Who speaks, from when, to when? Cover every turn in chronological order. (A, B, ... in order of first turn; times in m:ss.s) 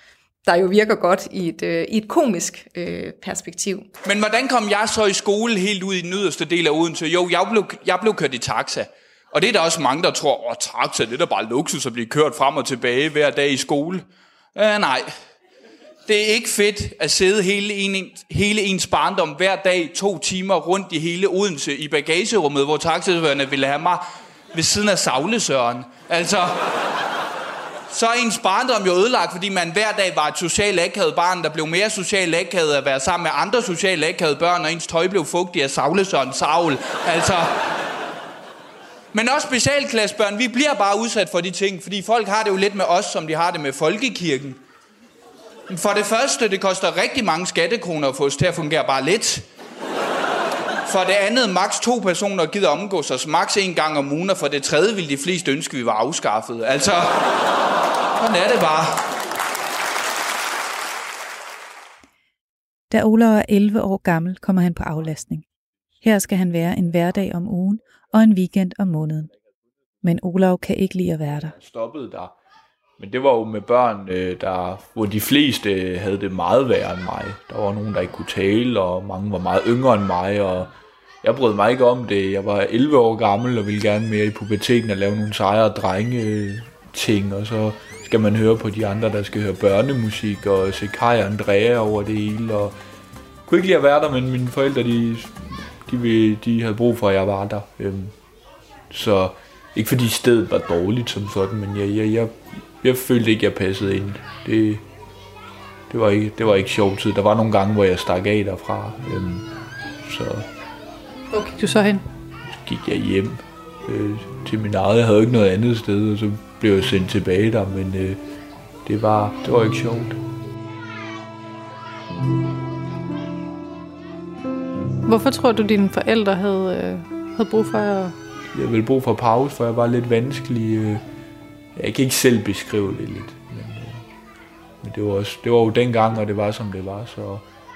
0:00.4-0:03.9 A
0:04.0-0:15.1 B
0:16.0-0:24.0 B
0:24.5-0:26.7 B
0:27.9-0:37.5 B
0:39.1-0:44.6 B
0:45.7-0:49.4 B
0:50.8-0:57.3 B
0:58.2-0:59.0 B
1:02.9-1:05.4 C
1:06.0-1:09.3 C
1:10.0-1:11.6 C
1:11.6-1:12.3 D
1:13.0-1:32.8 D
1:33.4-1:38.1 D
1:38.9-1:44.8 D
1:45.9-1:49.5 D
1:50.0-1:50.5 D
1:51.3-1:52.0 E
1:52.6-1:58.2 D
1:58.8-2:00.2 D
2:05.0-2:08.1 E
2:08.5-2:11.0 D
2:11.7-2:14.0 D
2:14.8-2:17.4 D